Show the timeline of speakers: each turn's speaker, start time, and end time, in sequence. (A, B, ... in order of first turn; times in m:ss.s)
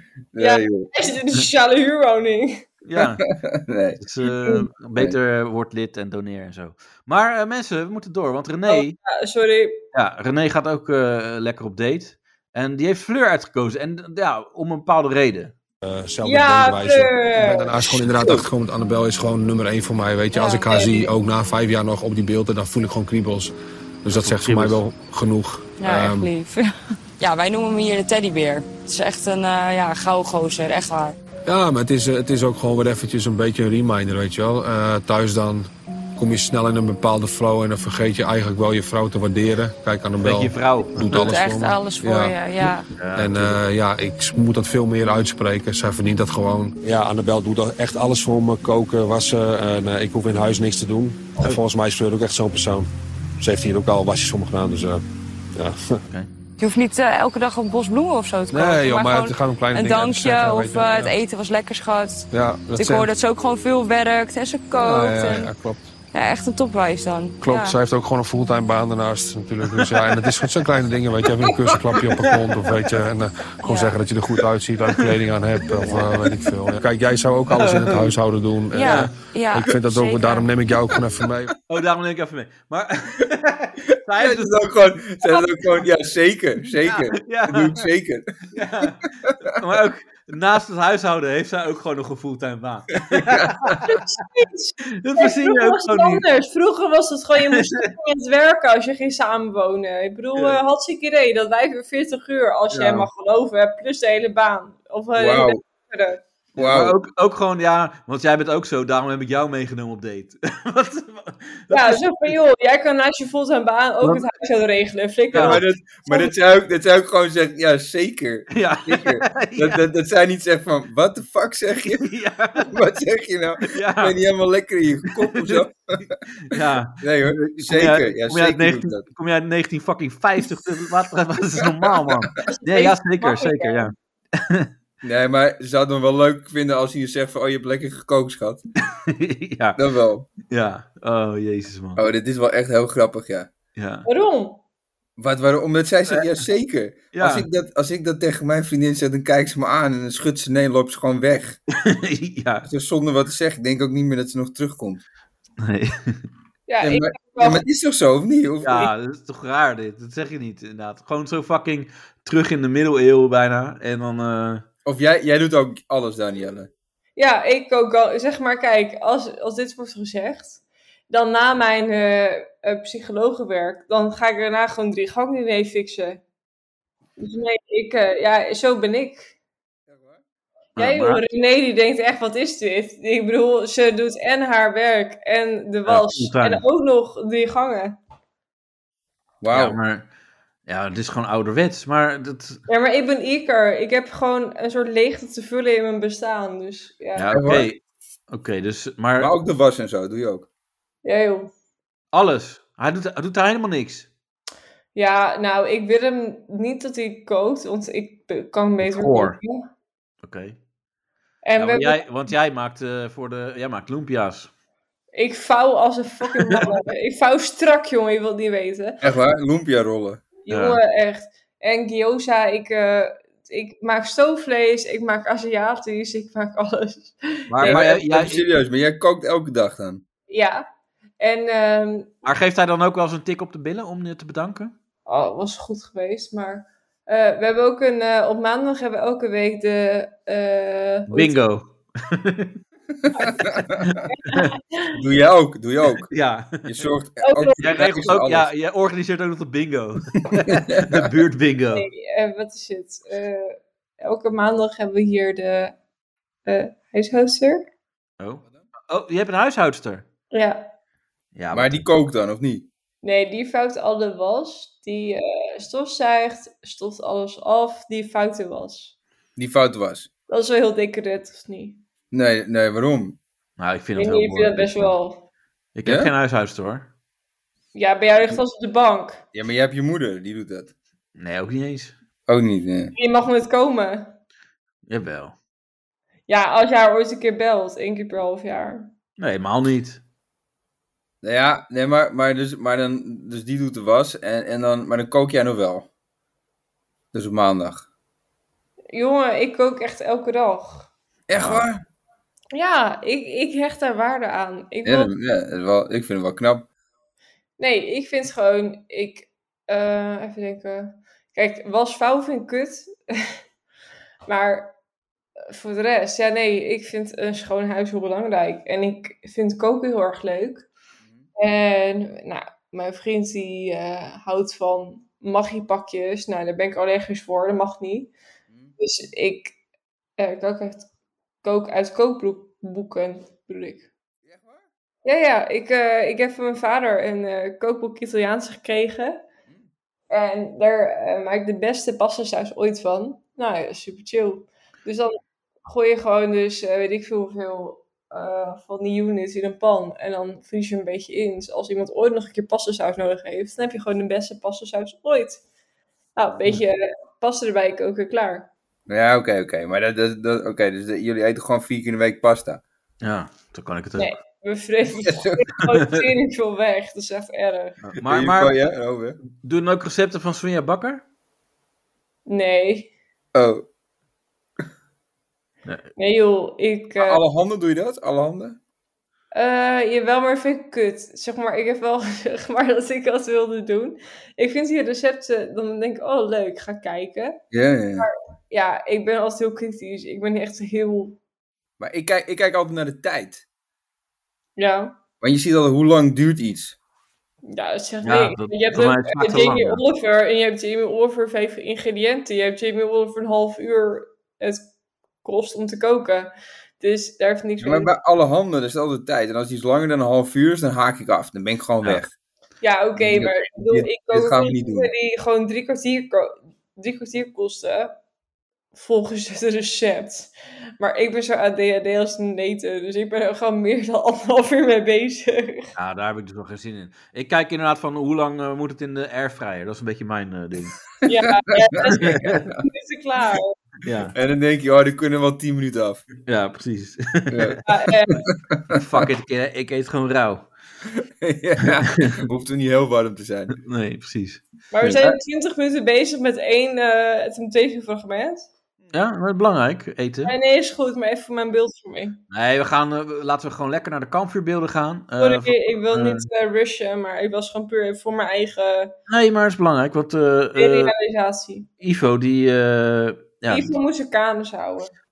0:00.3-0:00.9 A
0:00.4-0:02.7 B
0:02.8-0:03.2 C
0:03.0-0:04.0 A
0:04.0-0:09.0 C
0:08.7-0:09.8 B
0:09.9-0:15.5 C
0:15.8-0:26.3 D
0:16.2-0:17.8 B
0:18.1-0:18.5 A
0:20.3-0:21.0 E
0:20.7-0:21.0 B
0:24.2-0:24.8 C
0:25.8-0:31.2 E
0:31.5-0:52.9 D
0:40.2-0:41.2 C
0:41.0-0:42.9 E
0:43.0-0:43.6 C
0:53.4-0:55.0 D
0:55.6-0:55.8 D
0:56.6-1:05.5 E
0:58.5-1:01.2 D
1:02.3-1:03.1 D
1:04.8-1:05.8 D
1:06.1-1:07.8 E
1:07.4-1:21.6 D
1:11.9-1:12.8 C
1:13.6-1:14.0 E
1:14.9-1:15.2 C
1:15.7-1:16.3 C
1:17.5-1:18.2 C
1:18.7-1:20.5 E
1:18.8-1:19.1 C
1:21.7-1:24.6 C
1:24.2-1:28.3 A
1:26.8-1:27.9 C
1:28.6-1:33.8 C
1:28.8-1:29.3 A
1:33.1-1:33.8 A
1:33.8-1:46.2 B
1:35.0-1:36.2 C
1:37.5-1:37.9 C
1:42.7-1:43.1 C
1:45.2-1:45.6 A
1:46.6-1:47.0 A
1:46.6-1:52.4 C
1:51.7-1:56.3 B
1:55.3-1:55.6 C
1:55.3-2:09.0 A
1:58.5-1:59.8 C
2:01.9-2:02.8 C
2:03.7-2:04.2 C
2:05.2-2:05.6 C
2:06.4-2:14.7 C
2:11.6-2:12.2 A
2:12.5-2:13.9 B
2:15.0-2:18.6 A
2:18.9-2:19.8 C
2:19.8-2:20.3 A
2:20.5-2:22.0 C
2:22.0-2:23.5 A
2:23.8-2:24.1 C
2:24.1-2:24.6 B
2:25.2-2:31.6 A
2:27.1-2:27.5 C
2:31.8-2:32.7 C
2:32.6-2:35.0 A
2:35.6-2:36.2 C
2:36.7-2:37.6 B
2:36.8-2:38.9 A
2:38.6-2:44.6 C
2:44.8-2:46.7 A
2:47.2-2:56.2 B
2:57.2-2:59.3 B
2:59.9-3:00.2 A
3:00.8-3:01.2 C
3:00.8-3:08.0 B
3:05.9-3:06.6 C
3:09.4-3:09.8 A
3:09.5-3:10.1 C
3:10.7-3:12.6 C
3:12.7-3:17.3 B
3:17.2-3:17.8 C
3:17.3-3:17.7 A
3:18.3-3:19.3 C
3:19.2-3:20.5 A
3:21.0-3:21.5 B
3:22.1-3:24.1 C
3:25.0-3:29.7 B
3:28.8-3:29.4 C
3:30.2-3:30.6 C
3:31.4-3:32.1 B
3:31.6-3:34.5 C
3:35.1-3:39.0 B
3:39.0-3:40.2 A
3:40.4-3:47.8 B
3:40.5-3:40.8 C
3:47.5-3:48.5 C
3:47.6-3:50.0 A
3:50.3-3:50.7 B
3:51.2-3:52.1 B
3:52.2-3:54.7 C
3:55.1-4:01.4 B
4:01.1-4:02.6 C
4:03.2-4:03.9 A
4:03.8-4:04.5 C
4:04.1-4:04.9 B
4:05.0-4:06.1 A
4:06.1-4:06.7 C
4:06.6-4:08.5 A
4:07.2-4:07.7 B
4:07.6-4:11.9 C
4:10.5-4:11.0 A
4:11.7-4:15.8 B
4:16.5-4:17.6 B
4:18.2-4:20.0 C
4:20.3-4:20.7 B
4:21.4-4:21.8 C
4:21.5-4:22.7 A
4:23.0-4:28.9 B
4:29.4-4:30.1 A
4:30.3-4:31.8 B
4:32.1-4:33.2 A
4:33.6-4:34.9 C
4:34.0-4:35.3 B
4:35.8-4:36.9 C
4:35.8-4:36.1 A
4:37.7-4:39.2 B
4:39.3-4:40.7 A
4:41.2-4:42.0 C
4:42.3-4:42.9 A
4:43.0-4:44.2 B
4:44.9-4:45.4 C
4:46.3-4:48.9 B
4:49.2-4:50.0 C
4:51.2-4:55.9 A
4:57.1-4:57.8 A
4:58.9-5:00.9 B
5:01.3-5:01.8 A
5:01.3-5:01.6 C
5:02.5-5:05.1 B
5:04.8-5:06.7 A
5:07.6-5:13.4 B
5:14.3-5:14.8 B
5:15.5-5:20.7 B
5:21.4-5:28.1 B
5:28.8-5:29.5 B
5:30.2-5:30.9 B
5:31.4-5:33.9 B
5:34.2-5:34.6 A
5:35.0-5:39.2 B
5:40.1-5:55.4 B
5:56.2-5:58.5 B
5:58.9-6:02.6 A
6:03.0-6:04.1 C
6:04.0-6:07.8 B
6:05.0-6:05.4 A
6:07.8-6:08.6 C
6:08.0-6:09.2 A
6:09.4-6:11.0 C
6:12.3-6:12.9 B
6:13.3-6:13.6 A
6:16.0-6:17.2 B
6:17.0-6:18.6 A
6:19.3-6:27.4 B
6:27.5-6:28.1 A
6:28.0-6:31.2 B
6:31.8-6:33.4 A
6:34.6-6:34.9 B
6:35.2-6:36.8 A
6:37.4-6:44.7 B
6:38.0-6:39.8 C
6:45.2-6:47.9 B
6:47.6-6:52.1 A
6:52.6-6:58.0 B
6:53.0-6:54.9 A
6:58.8-7:05.7 B
7:05.8-7:10.8 C
7:11.1-7:13.6 B
7:11.9-7:12.6 A
7:12.0-7:12.4 C
7:13.8-7:14.1 C
7:14.1-7:16.0 A
7:16.3-7:17.6 C
7:17.3-7:17.6 A
7:17.7-7:18.2 B
7:18.5-7:19.0 A
7:18.8-7:20.5 C
7:21.2-7:23.6 A
7:23.6-7:24.4 C
7:24.7-7:28.5 B
7:24.8-7:25.2 A
7:28.9-7:30.3 C
7:30.2-7:32.2 B
7:32.3-7:36.3 C
7:35.2-7:38.9 B
7:39.1-7:40.9 C
7:40.6-7:41.7 B
7:41.8-7:43.8 C
7:43.5-7:44.9 B